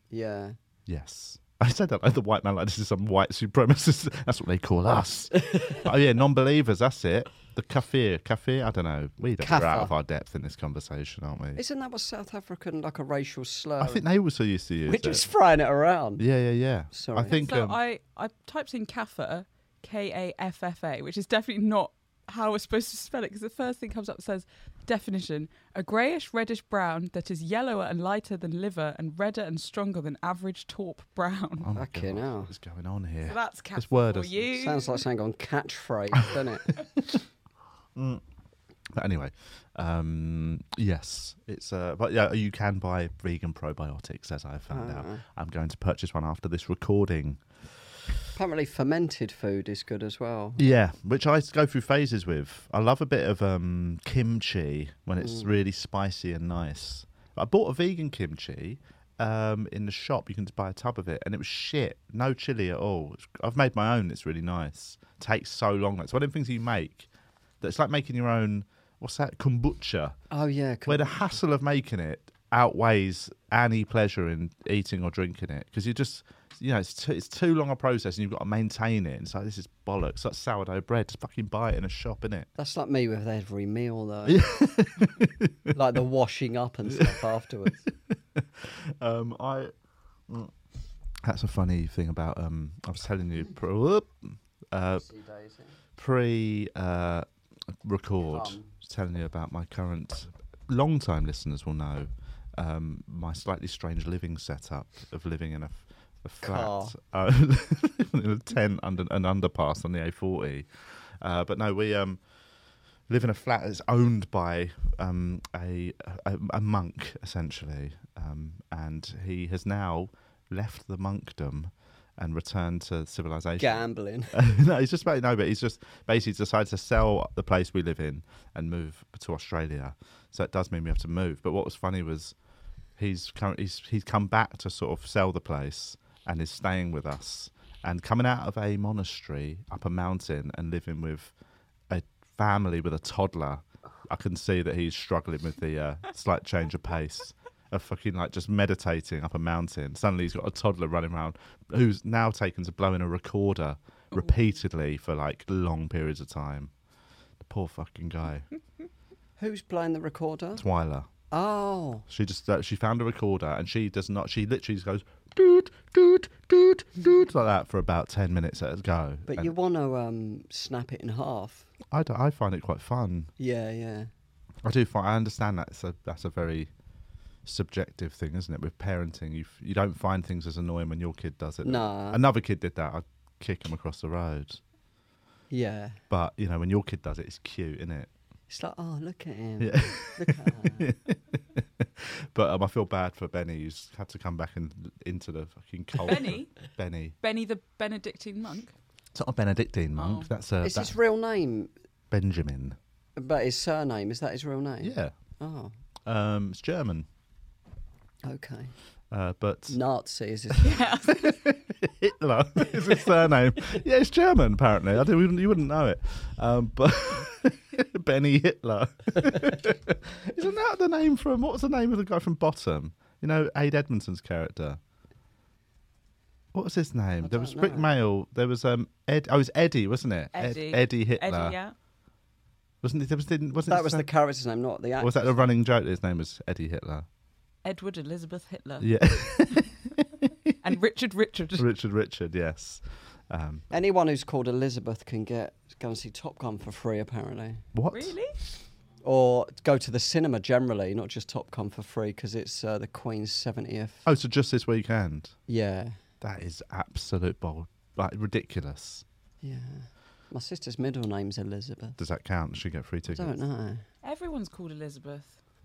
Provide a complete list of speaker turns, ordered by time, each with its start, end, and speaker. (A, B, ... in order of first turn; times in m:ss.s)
0:00.1-0:00.6 A
0:00.9-0:11.6 B
0:05.5-0:05.8 A
0:09.4-0:09.9 A
0:11.6-0:14.0 A
0:13.8-0:15.3 B
0:14.9-0:16.2 A
0:16.2-0:17.8 B
0:16.9-0:17.4 A
0:17.3-0:31.7 C
0:31.6-0:34.5 B
0:31.7-0:32.5 A
0:33.2-0:35.0 C
0:34.6-0:36.7 A
0:37.9-0:38.2 B
0:38.9-0:47.4 B
0:44.7-0:45.2 A
0:48.3-0:50.6 A
0:50.6-1:07.1 B
0:55.2-0:55.5 A
1:07.6-1:10.2 B
1:10.3-1:11.4 A
1:10.9-1:22.5 B
1:22.6-1:24.5 A
1:24.3-1:25.7 B
1:25.7-1:27.8 A
1:27.9-1:29.7 B
1:31.2-1:35.0 B
1:35.0-1:35.8 A
1:36.0-1:37.2 B
1:37.8-1:50.7 B
1:38.3-1:38.7 A
1:46.4-1:47.0 A
1:51.2-1:52.2 B
1:53.1-2:12.3 B
2:03.6-2:04.4 A
2:13.0-2:21.3 B
2:21.9-2:36.7 B
2:37.4-2:38.5 B
2:39.4-2:40.6 A
2:40.6-2:41.1 B
2:41.3-2:42.0 A
2:42.1-2:49.5 B
2:49.3-2:51.7 A
2:51.9-2:53.3 B
2:53.4-2:54.1 A
2:54.6-2:56.7 B
2:57.4-3:04.6 B
3:01.6-3:02.2 A
3:05.5-3:06.0 A
3:06.1-3:08.1 B
3:08.5-3:10.9 A
3:09.6-3:17.2 B
3:16.0-3:16.5 C
3:17.2-3:18.7 C
3:19.1-3:21.0 B
3:20.0-3:20.3 C
3:20.6-3:21.7 A
3:22.1-3:22.8 B
3:23.2-3:25.7 A
3:24.8-3:25.1 B
3:26.0-3:27.0 B
3:28.2-3:28.7 A
3:29.1-3:29.8 B
3:29.7-3:30.9 A
3:30.6-3:31.4 C
3:31.0-3:44.8 B
3:46.5-3:51.6 B
3:47.2-3:47.9 A
3:50.3-3:51.7 C
3:52.8-3:54.0 B
3:53.7-3:55.2 A
3:55.0-3:57.0 B
3:57.6-3:59.6 C
3:58.8-4:00.5 B
4:00.6-4:01.7 C
4:01.6-4:03.6 B
4:03.7-4:07.6 A
4:07.7-4:08.1 B
4:07.9-4:08.3 C
4:09.0-4:14.0 A
4:14.0-4:15.3 B
4:15.5-4:16.0 A
4:16.2-4:19.0 B
4:19.4-4:22.0 A
4:22.0-4:23.4 B
4:23.1-4:23.8 A
4:24.0-4:25.4 C